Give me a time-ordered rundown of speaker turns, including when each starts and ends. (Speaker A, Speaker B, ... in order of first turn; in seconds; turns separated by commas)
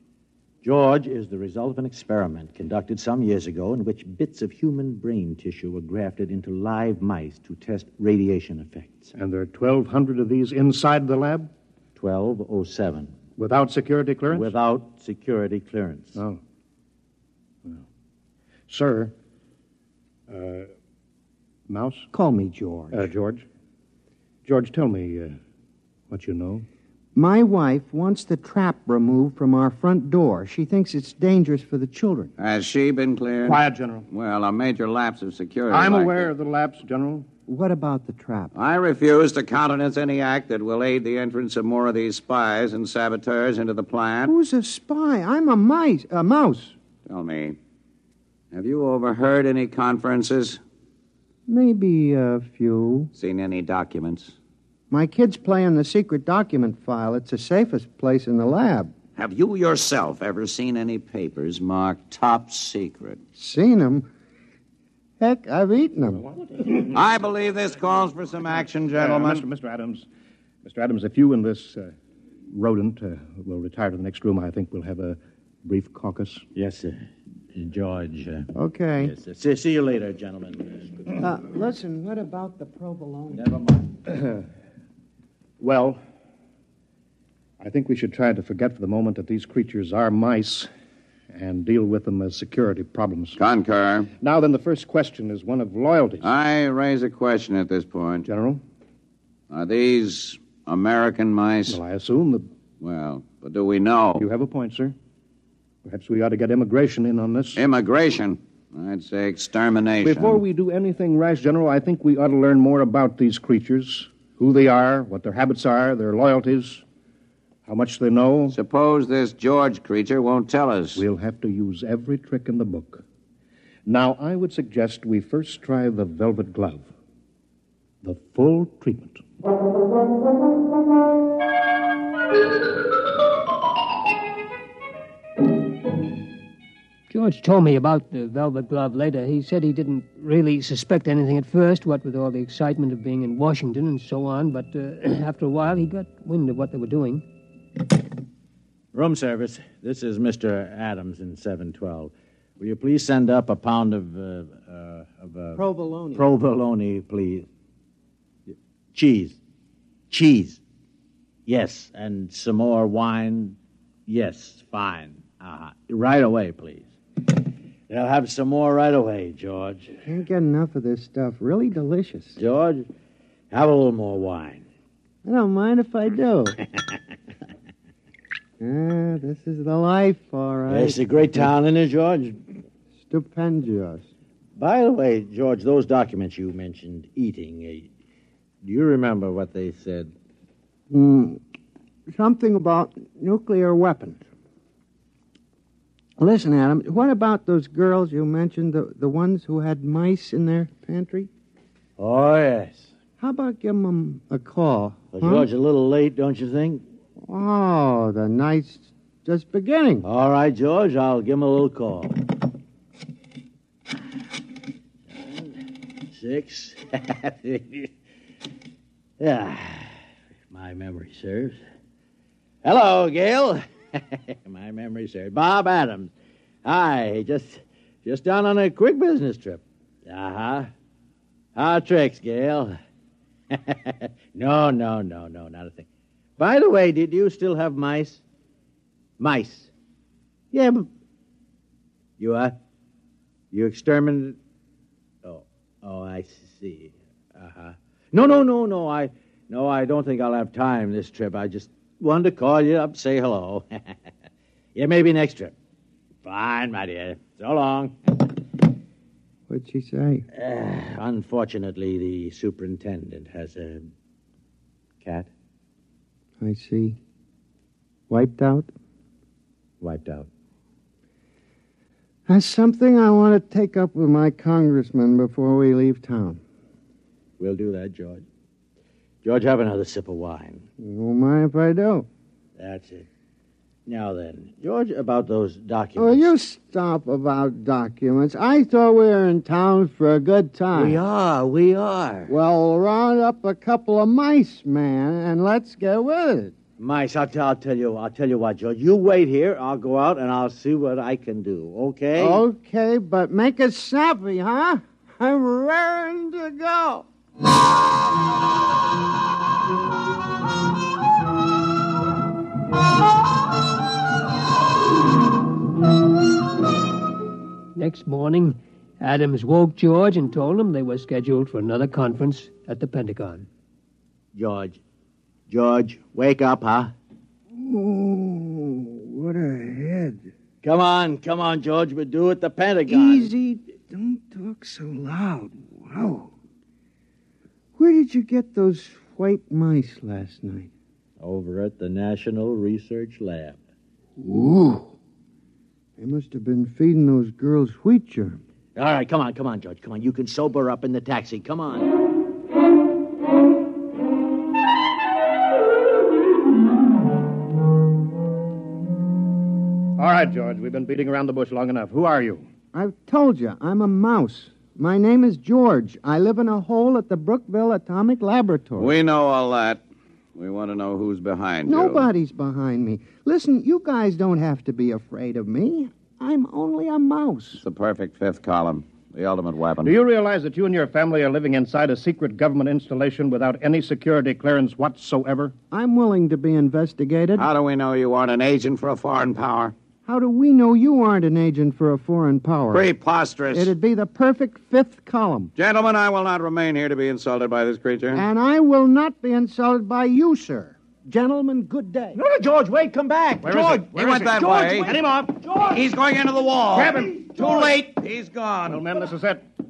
Speaker A: 0.6-9.1, Speaker B: 9.1-11.5, Speaker A: 11.9-13.1, Speaker B: 13.4-14.5, Speaker A: 14.3-16.2, Speaker B: 16.1-16.4, Speaker B: 18.7-19.1, Speaker B: 20.3-20.7, Speaker B: 21.7-22.1, Speaker C: 22.1-23.1, Speaker B: 22.9-23.4, Speaker B: 24.4-25.4, Speaker B: 26.1-26.6, Speaker C: 27.1-32.3, Speaker D: 32.4-36.3, Speaker B: 33.4-34.0, Speaker B: 35.7-37.2, Speaker C: 37.5-38.5, Speaker D: 38.5-44.3, Speaker C: 44.2-46.8, Speaker D: 47.0-47.6, Speaker D: 48.5-50.6, Speaker C: 51.5-53.1, Speaker D: 53.1-54.3, Speaker C: 54.9-58.9, Speaker D: 59.1-63.2, Speaker C: 63.4-64.1, Speaker C: 65.2-66.2, Speaker D: 66.8-69.4, Speaker B: 69.0-70.0, Speaker B: 70.6-71.9, Speaker B: 72.5-76.4, Speaker A: 76.5-77.0, Speaker A: 77.5-81.2, Speaker C: 78.5-79.1, Speaker C: 81.2-83.5, Speaker A: 83.3-83.9, Speaker B: 84.1-84.4, Speaker B: 85.6-86.0, Speaker B: 87.6-90.7, Speaker B: 91.3-93.4, Speaker D: 93.3-94.1, Speaker B: 94.2-96.3, Speaker D: 96.2-98.3, Speaker B: 98.3-98.6, Speaker D: 99.5-101.8, Speaker B: 101.7-102.5, Speaker D: 102.8-104.3, Speaker B: 104.2-104.9, Speaker B: 105.8-107.6, Speaker D: 107.5-110.4, Speaker B: 110.0-116.8, Speaker B: 117.7-118.5, Speaker D: 118.5-121.0, Speaker B: 121.0-123.0, Speaker B: 123.8-126.9, Speaker B: 128.0-129.2, Speaker E: 137.1-147.2, Speaker A: 148.9-155.6, Speaker C: 155.5-156.3, Speaker A: 156.1-157.5, Speaker A: 158.9-159.4, Speaker A: 160.1-160.6, Speaker A: 161.5-166.9, Speaker A: 167.9-170.0, Speaker C: 170.0-172.4, Speaker A: 172.4-172.9, Speaker A: 173.5-174.6, Speaker C: 175.2-176.6, Speaker C: 178.6-181.0, Speaker A: 180.7-182.4, Speaker C: 183.0-184.1, Speaker A: 184.6-187.9, Speaker A: 188.6-190.1, Speaker C: 190.9-191.4, Speaker C: 192.1-194.2, Speaker C: 196.2-201.3, Speaker A: 202.0-202.9, Speaker C: 203.2-205.5, Speaker A: 205.1-206.8, Speaker C: 207.2-210.1, Speaker A: 210.0-212.3, Speaker A: 215.1-217.9, Speaker A: 219.2-219.9, Speaker A: 220.5-221.6, Speaker A: 222.6-226.1, Speaker A: 226.6-230.7, Speaker A: 231.6-232.8, Speaker A: 233.5-235.8, Speaker A: 236.4-238.2, Speaker A: 239.2-239.7, Speaker A: 240.5-240.9, Speaker A: 242.2-242.6, Speaker A: 243.5-244.4, Speaker A: 245.2-254.0, Speaker A: 254.7-255.5, Speaker A: 256.2-258.3, Speaker C: 259.5-260.2, Speaker A: 260.3-263.9, Speaker A: 265.0-265.3, Speaker C: 266.4-267.0, Speaker C: 268.1-268.7, Speaker A: 269.8-270.3, Speaker C: 272.3-276.4, Speaker A: 277.4-278.2, Speaker A: 279.2-280.6, Speaker C: 280.8-282.1, Speaker A: 282.6-283.1, Speaker A: 283.9-286.3, Speaker C: 285.9-291.0, Speaker A: 290.7-292.3, Speaker C: 292.3-296.5, Speaker A: 296.8-302.4, Speaker C: 302.1-307.1, Speaker E: 317.7-323.5, Speaker A: 324.3-324.8, Speaker A: 325.5-326.9, Speaker C: 327.5-330.3, Speaker A: 330.6-333.3, Speaker C: 332.9-336.3, Speaker C: 337.8-340.7, Speaker A: 341.2-343.6, Speaker C: 344.2-344.9, Speaker C: 346.0-348.4, Speaker A: 348.8-351.9, Speaker B: 360.0-362.4, Speaker C: 362.7-368.9, Speaker D: 368.8-369.8, Speaker D: 370.4-372.1, Speaker C: 371.6-377.6, Speaker D: 377.6-379.9, Speaker B: 379.8-385.5, Speaker C: 385.7-387.5, Speaker D: 387.4-389.7, Speaker C: 390.0-392.9, Speaker D: 392.7-393.7, Speaker C: 393.5-395.5, Speaker D: 395.6-398.2, Speaker C: 398.1-402.2, Speaker A: 402.1-405.9, Speaker B: 403.4-405.5, Speaker D: 403.9-404.9, Speaker D: 405.7-408.8, Speaker B: 406.7-407.2, Speaker A: 406.8-407.9, Speaker B: 408.7-409.4